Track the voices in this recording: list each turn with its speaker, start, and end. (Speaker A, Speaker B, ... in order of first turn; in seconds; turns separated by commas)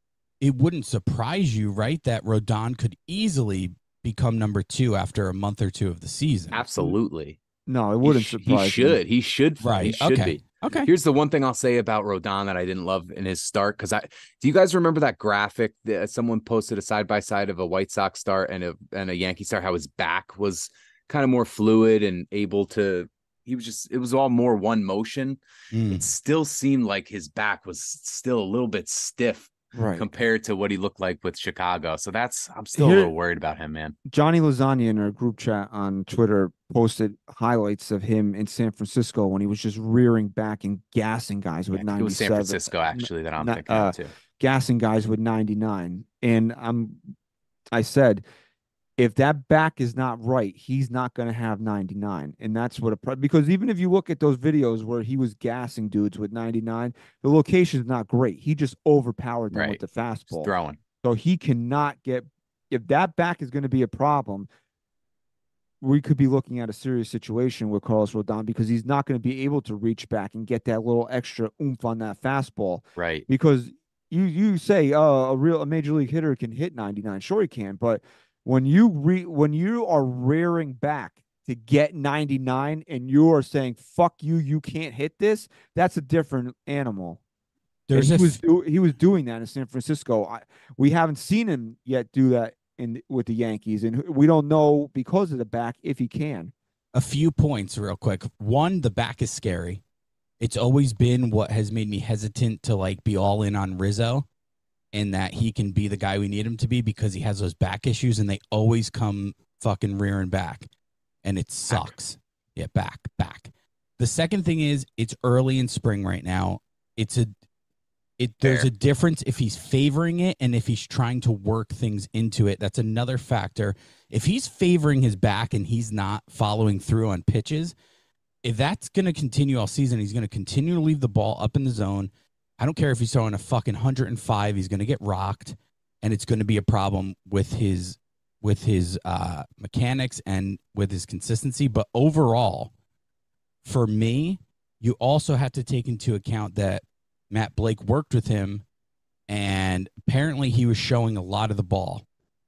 Speaker A: 0.4-6.6, Speaker B: 6.5-7.4, Speaker C: 7.7-9.0, Speaker B: 8.0-34.0, Speaker A: 9.6-10.9, Speaker A: 25.7-26.1, Speaker C: 29.7-30.1, Speaker C: 32.8-33.1, Speaker C: 34.1-47.0, Speaker B: 41.7-44.1, Speaker C: 47.7-48.2, Speaker C: 49.0-60.5, Speaker B: 59.5-60.8, Speaker C: 61.0-64.5, Speaker C: 65.8-87.2, Speaker B: 73.0-73.3, Speaker A: 87.9-88.4, Speaker C: 87.9-96.5, Speaker A: 96.9-99.8, Speaker A: 100.4-104.3, Speaker A: 104.9-110.7, Speaker A: 111.2-117.3, Speaker B: 111.7-112.0, Speaker A: 118.2-127.8, Speaker B: 118.4-118.7, Speaker A: 128.4-142.7, Speaker A: 143.6-148.7, Speaker A: 149.3-152.1